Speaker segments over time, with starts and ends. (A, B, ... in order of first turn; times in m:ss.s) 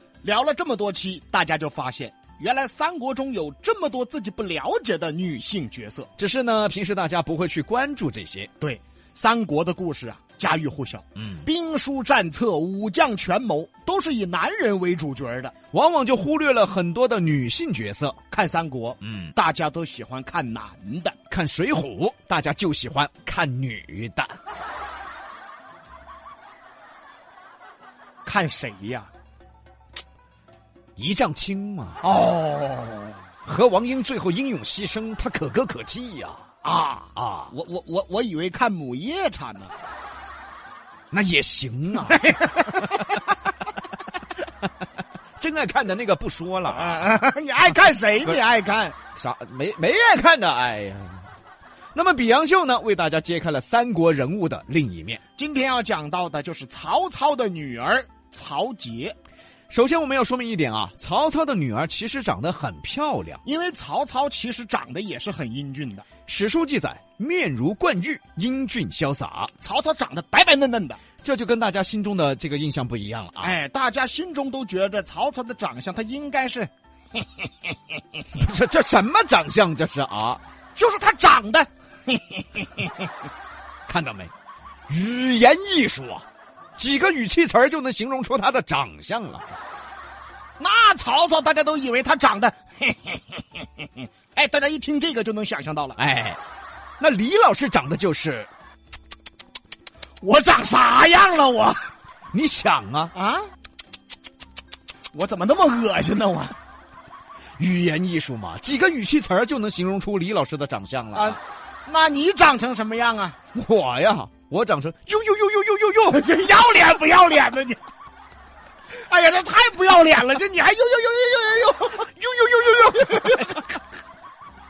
0:00.2-0:06.1 A
0:06.2-0:08.5 B
0:08.6-0:15.5 A
0:15.7-0:18.2 B
0:18.3-0:21.2 A
0:19.0-0:19.3 B
0:21.3-0:24.4 B
0:28.2-0:29.1 A
0:31.0-0:32.0 B
0:32.0-0:33.2 A
0:33.4-0:36.4 B
0:36.6-0:39.7 A
0:37.2-0:37.5 B
0:41.1-0:42.4 B
0:42.1-0:42.8 A
0:45.4-0:47.2 B
0:46.7-0:49.0 A
0:49.2-0:51.3 B
0:51.9-0:55.2 B
0:55.4-0:59.2 A
0:59.7-1:03.4 B
1:03.4-1:06.1 A
1:06.3-1:09.5 B
1:09.6-1:11.0 A
1:11.2-1:13.6 B
1:13.4-1:17.5 A
1:18.3-1:20.4 B
1:20.8-1:22.9 A
1:23.9-1:24.3 B
1:24.9-1:26.3 B
1:26.8-1:29.5 B
1:30.6-1:36.0 A
1:36.0-1:36.4 B
1:37.0-1:38.5 B
1:40.2-1:41.9 A
1:42.3-1:43.1 B
1:43.1-1:43.5 A
1:45.1-1:46.6 A
1:47.6-1:51.4 B
1:51.1-1:53.4 A
1:53.5-1:56.2 B
1:56.1-1:57.8 A
1:58.9-2:02.2 A
2:02.2-2:03.7 B
2:03.0-2:03.6 A